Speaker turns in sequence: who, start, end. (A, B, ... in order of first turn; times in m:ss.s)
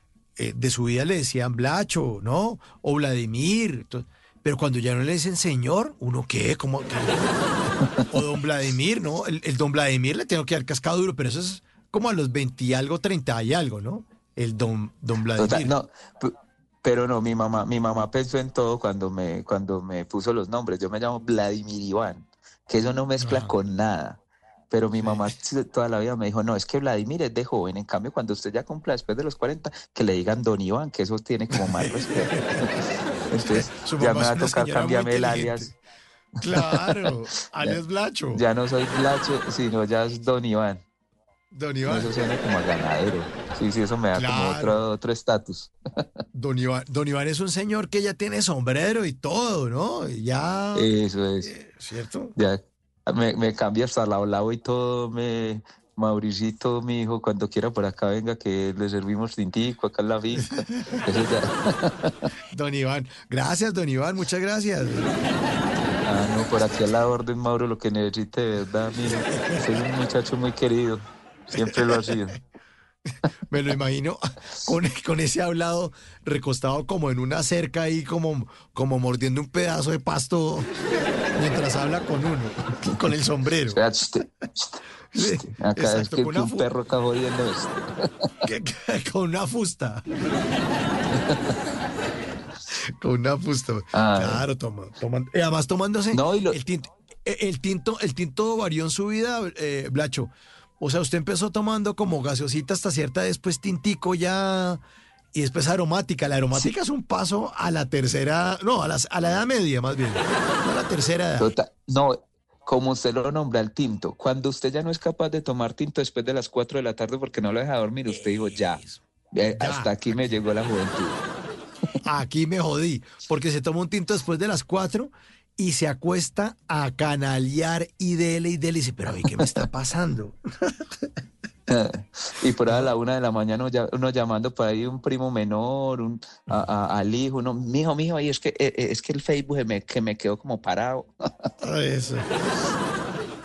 0:00.4-0:07.3 A
0:08.1-0:15.7 A
0:15.4-0:35.7 B
0:23.2-0:23.5 A
0:25.0-0:25.2 A
0:31.6-0:32.6 A
0:33.4-0:35.8 A
0:36.4-0:38.4 A
0:38.3-0:40.8 B
0:41.5-0:42.1 A
0:41.8-0:45.7 B
0:44.1-0:44.8 A
0:46.3-0:50.9 A
0:50.7-0:51.5 B
0:51.4-0:52.3 A
0:52.4-1:02.2 B
1:00.7-1:01.0 A
1:02.5-1:05.1 A
1:06.0-1:12.4 B
1:09.3-1:09.6 A
1:11.7-1:12.1 A
1:13.5-1:20.7 A
1:21.3-1:23.8 A
1:23.7-1:27.8 B
1:25.1-1:26.7 A
1:28.4-1:30.0 A
1:31.1-1:31.5 B
1:33.0-1:44.8 A
1:33.9-1:34.4 B
1:36.1-1:36.6 B
1:45.3-1:51.5 A
1:51.4-1:58.8 B
1:58.2-1:59.0 A
1:59.3-2:01.2 B
1:59.6-2:00.4 A
2:02.0-2:10.8 A
2:11.7-2:21.1 B
2:21.6-2:22.3 A